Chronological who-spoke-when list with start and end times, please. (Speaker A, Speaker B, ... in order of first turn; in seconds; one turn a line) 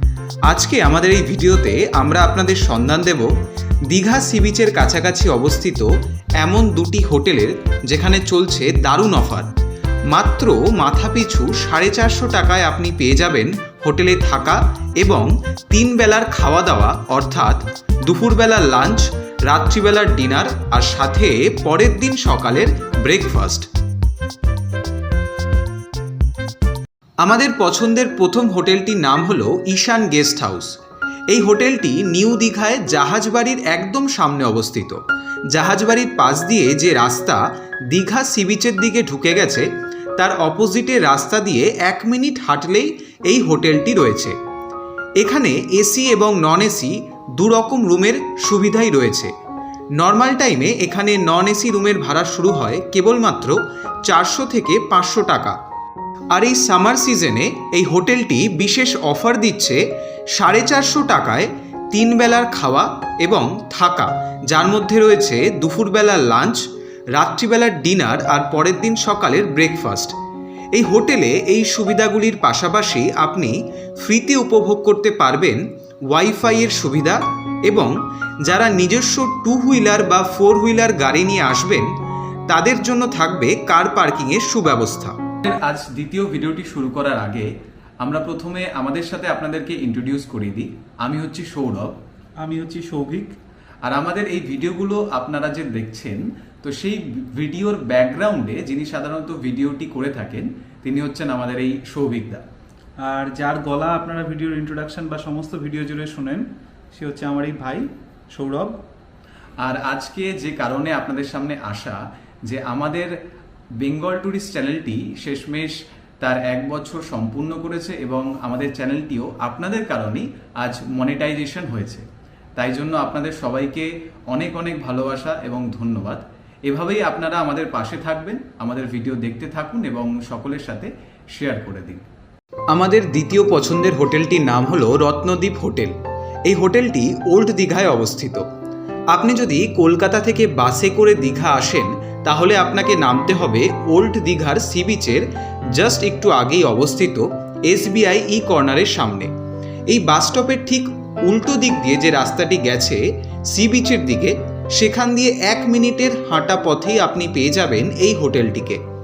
Speaker A: 0.5-3.3
Speaker A: 3.9-5.9
Speaker A: 6.4-9.5
Speaker A: 10.1-23.7
Speaker A: 27.2-30.7
Speaker A: 31.3-35.0
Speaker A: 35.5-37.4
Speaker A: 37.9-39.6
Speaker A: 40.2-44.3
Speaker A: 45.2-49.3
Speaker A: 50.0-55.6
Speaker A: 56.3-59.8
Speaker A: 60.4-66.6
Speaker A: 67.1-70.1
Speaker A: 70.7-77.9
Speaker A: 78.5-81.9
Speaker A: 82.5-85.2
Speaker B: 85.5-87.5
Speaker B: 88.0-91.9
Speaker C: 92.4-93.3
Speaker B: 93.8-102.4
Speaker C: 103.0-108.8
Speaker B: 109.6-113.1
Speaker B: 113.8-122.0
Speaker B: 122.6-132.0
Speaker A: 132.7-135.9
Speaker A: 136.5-138.4
Speaker A: 139.1-149.3
Speaker A: 149.9-158.8